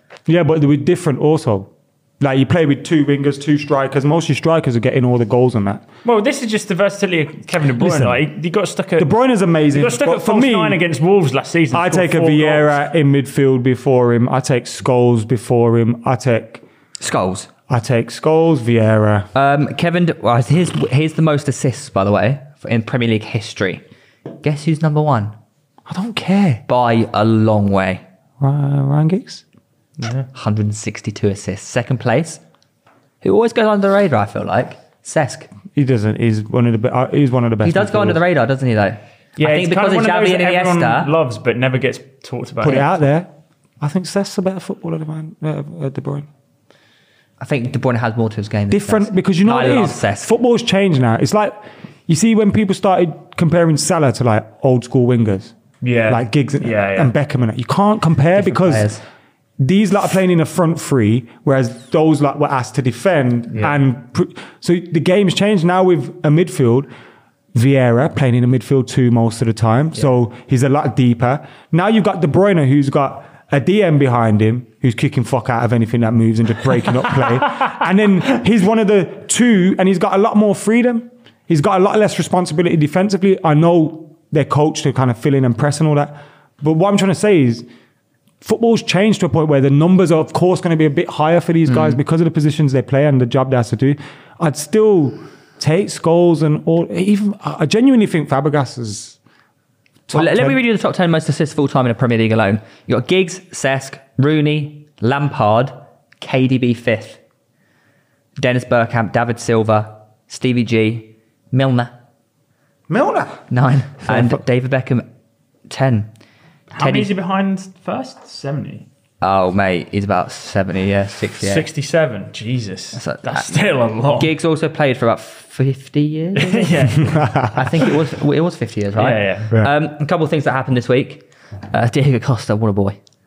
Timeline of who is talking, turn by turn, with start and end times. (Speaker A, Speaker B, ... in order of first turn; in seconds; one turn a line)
Speaker A: 0.3-5.8
Speaker B: 6.0-9.1
Speaker A: 7.8-8.3
Speaker A: 9.0-10.8
Speaker B: 9.7-12.8
Speaker A: 11.7-16.6
Speaker C: 17.0-17.5
Speaker A: 17.7-19.3
Speaker C: 19.4-23.8
Speaker C: 24.4-25.4
Speaker A: 25.9-26.6
Speaker C: 26.7-28.0
Speaker A: 28.4-29.4
Speaker B: 30.0-30.3
Speaker C: 30.3-32.4
Speaker C: 33.2-35.5
Speaker A: 35.8-38.2
Speaker C: 37.6-41.1
Speaker B: 39.4-43.0
Speaker A: 42.6-46.3
Speaker C: 47.4-50.3
Speaker A: 48.7-55.5
Speaker B: 55.8-57.1
Speaker A: 56.1-58.9
Speaker C: 58.4-59.0
Speaker A: 59.6-66.9
Speaker B: 63.5-63.8
Speaker A: 67.5-87.7
Speaker A: 88.4-99.2
Speaker C: 91.7-92.0
Speaker A: 100.1-100.6
Speaker C: 100.1-107.2
Speaker C: 108.4-112.0
Speaker A: 112.9-113.5
Speaker C: 113.5-115.1
Speaker A: 114.0-114.4
Speaker C: 115.7-116.1
Speaker B: 116.7-118.9
Speaker C: 116.8-117.1
Speaker C: 119.2-121.7
Speaker B: 121.4-124.3
Speaker C: 122.9-133.0
Speaker B: 126.4-127.2
Speaker A: 127.1-127.7
Speaker B: 129.0-129.6